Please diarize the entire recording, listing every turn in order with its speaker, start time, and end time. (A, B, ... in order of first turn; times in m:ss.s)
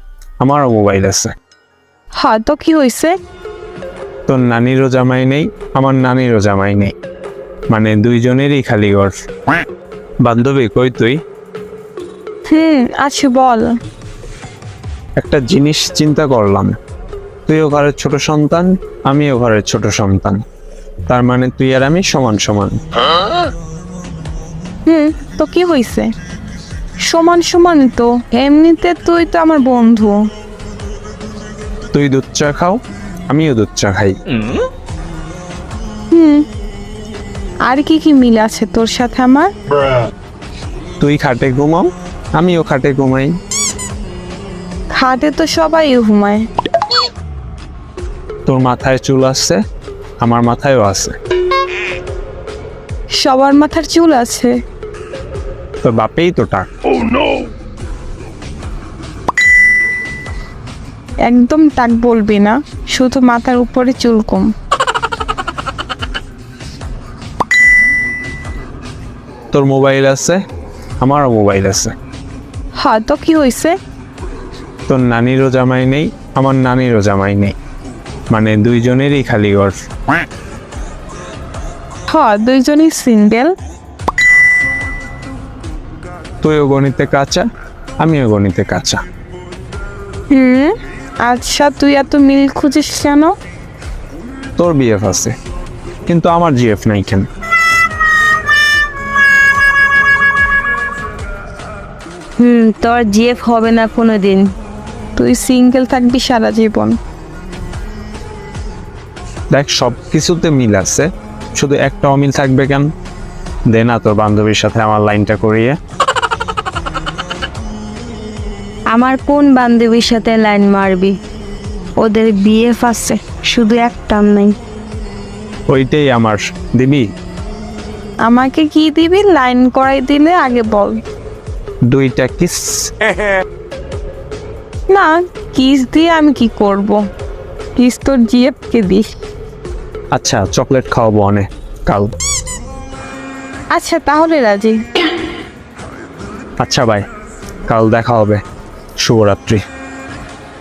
0:00.4-0:01.3 A
0:02.2-0:03.1 B
0:04.3-0:06.9 A
0:07.7-0:09.2 A
0:10.2-0:11.2 A
0:12.5-0:13.7 B
0:15.2-0:16.8 A
0:17.5-0:20.4 A
0:21.1-0:22.8 A
0:24.9-0:26.1 B
0:27.0-0:30.2 B
0:31.9-0:34.2 A
0:36.1-0:36.4 B
0:37.7-0:39.5 B
0:41.0-0:43.3 A
0:44.9-0:46.4 B
0:48.5-0:49.6 A
0:50.2-0:51.1 A
0:53.2-0:54.5 B
0:55.8-0:56.7 A
1:01.3-1:04.5 B
1:09.5-1:10.4 A
1:11.0-1:11.9 A
1:12.8-1:13.8 B
1:14.9-1:17.6 A
1:18.3-1:19.8 A
1:22.1-1:23.5 B
1:26.4-1:27.4 A
1:28.0-1:29.0 A
1:30.3-1:30.8 B
1:31.3-1:33.3 B
1:34.6-1:35.3 A
1:36.1-1:37.3 A
1:42.4-1:44.5 C
1:45.2-1:47.0 B
1:49.5-1:52.9 A
1:53.7-1:55.8 A
1:58.9-2:01.2 C
2:02.0-2:04.6 C
2:05.7-2:07.1 A
2:08.3-2:11.0 B
2:11.9-2:12.9 A
2:14.9-2:17.0 B
2:17.8-2:19.1 B
2:20.1-2:22.1 A
2:23.7-2:24.8 B
2:26.6-2:27.0 A
2:27.7-2:28.4 A
2:29.0-2:29.6 A